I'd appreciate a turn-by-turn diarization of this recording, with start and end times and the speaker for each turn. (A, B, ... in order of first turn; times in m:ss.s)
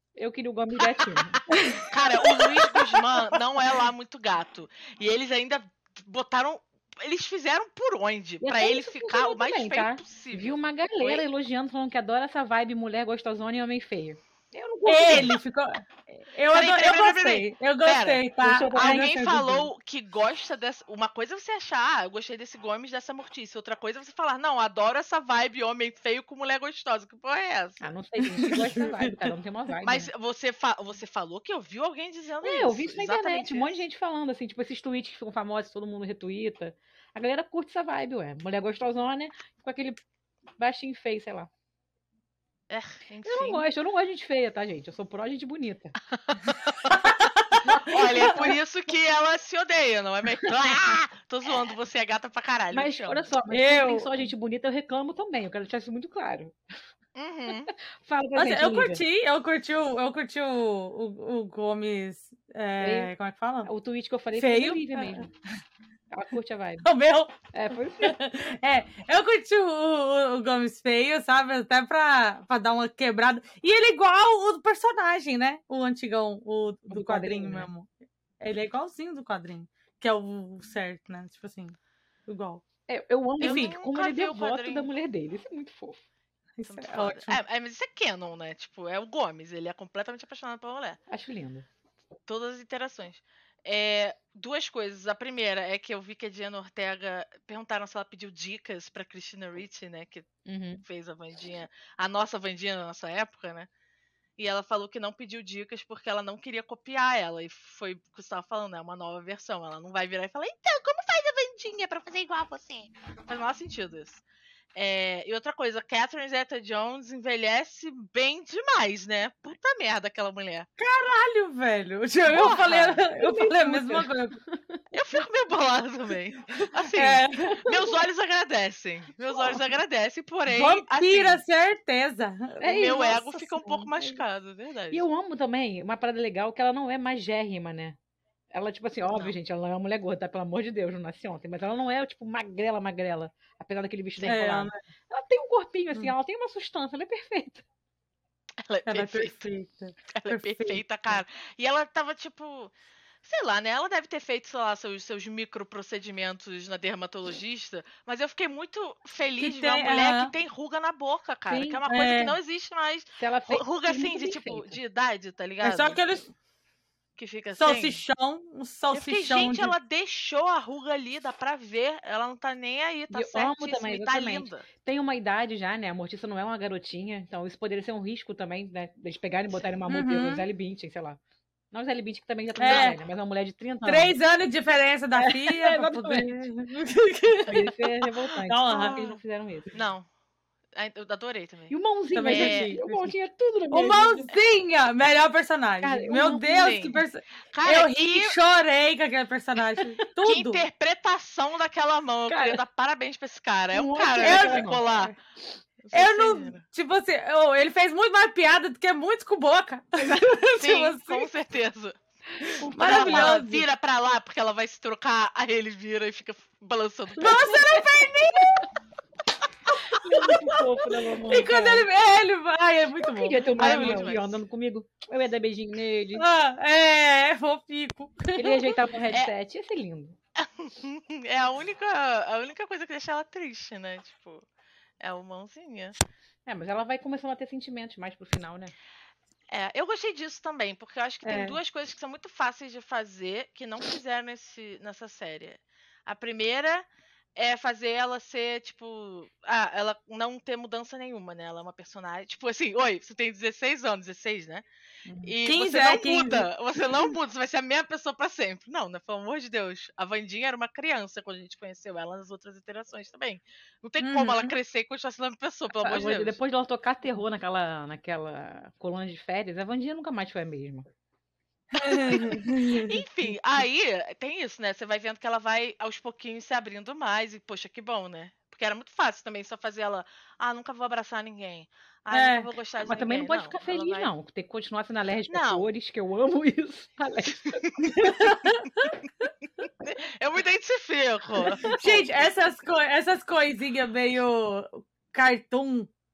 0:00.2-0:01.4 A
0:01.8-0:11.2 B
0:08.4-0:15.3 A
0:14.9-0:19.7 C
0:16.5-0:27.8 B
0:18.4-0:19.2 A
0:27.8-0:30.1 A
0:28.4-0:29.2 C
0:29.8-0:33.8 B
0:32.4-0:40.0 A
0:40.6-0:41.5 A
0:42.7-0:43.6 B
0:43.2-0:46.0 A
0:46.6-0:47.0 B
0:47.6-0:48.6 A
0:47.8-0:53.3 B
0:48.2-0:48.5 C
0:52.7-0:56.6 A
0:53.5-0:54.3 C
0:57.2-0:57.7 B
0:57.7-0:59.0 A
0:58.4-1:03.7 C
1:02.8-1:03.1 A
1:03.6-1:05.3 A
1:04.3-1:05.3 C
1:06.1-1:06.9 A
1:06.8-1:07.4 C
1:07.5-1:08.2 A
1:08.0-1:22.6 C
1:16.9-1:17.7 A
1:22.9-1:26.0 A
1:23.4-1:23.8 C
1:23.4-1:24.9 B
1:26.6-1:27.4 C
1:26.7-1:31.0 B
1:31.1-1:31.7 A
1:32.3-1:40.3 B
1:40.5-1:40.8 A
1:40.8-1:43.7 B
1:44.4-1:54.2 B
1:54.8-2:00.7 B
2:00.8-2:04.4 C
2:02.3-2:03.0 B
2:02.4-2:04.8 A
2:04.9-2:11.4 B
2:07.0-2:07.6 C
2:07.4-2:07.9 A
2:10.5-2:13.2 C
2:12.6-2:14.2 A
2:12.6-2:15.0 B
2:14.9-2:18.0 A
2:18.5-2:27.6 A
2:24.3-2:24.8 C
2:28.6-2:29.4 B
2:28.9-2:30.8 C
2:30.1-2:32.7 B
2:33.2-2:46.0 B
2:39.4-2:40.3 C
2:41.5-2:41.8 A
2:41.9-2:42.4 C
2:43.2-2:44.8 A
2:45.6-2:46.3 C
2:47.2-2:48.0 B
2:47.6-2:49.8 C
2:48.9-2:54.6 B
2:53.1-3:01.2 A
2:59.9-3:00.5 C
3:01.7-3:04.2 A
3:02.6-3:03.0 C
3:03.8-3:07.7 C
3:05.2-3:06.4 A
3:07.5-3:09.7 A
3:08.4-3:09.0 C
3:08.7-3:09.2 B
3:09.7-3:10.1 B
3:10.7-3:12.7 B
3:11.7-3:14.3 A
3:12.1-3:13.1 C
3:13.7-3:20.6 C
3:15.8-3:17.0 A
3:16.4-3:17.0 B
3:17.5-3:18.4 B
3:20.2-3:25.1 B
3:22.3-3:22.6 A
3:23.7-3:24.8 A
3:24.2-3:25.1 C
3:25.8-3:26.6 B
3:25.9-3:31.3 C
3:30.0-3:30.4 A
3:30.6-3:32.0 B
3:32.6-3:33.4 A
3:32.6-3:33.7 C
3:32.8-3:37.7 B
3:37.2-3:38.7 C
3:37.2-3:37.9 A
3:39.8-3:41.9 A
3:40.2-3:40.6 C
3:41.2-3:44.1 C
3:43.0-3:46.3 A
3:43.6-3:44.4 B
3:46.2-3:48.7 C
3:48.4-3:50.2 A
3:50.4-3:54.4 B
3:55.0-3:56.0 B
3:56.5-3:58.7 A
3:59.5-4:14.6 B
4:01.2-4:01.6 C
4:15.1-4:15.3 A
4:15.2-4:26.4 B
4:15.4-4:16.5 C
4:24.0-4:24.6 C
4:25.8-4:30.9 A
4:31.7-4:32.9 C
4:32.0-4:44.1 B
4:42.1-4:42.5 C
4:42.8-4:47.7 A
4:45.3-4:45.7 B
4:47.8-4:48.9 C
4:49.8-4:51.8 B
4:51.4-4:52.0 A
4:51.7-4:55.9 C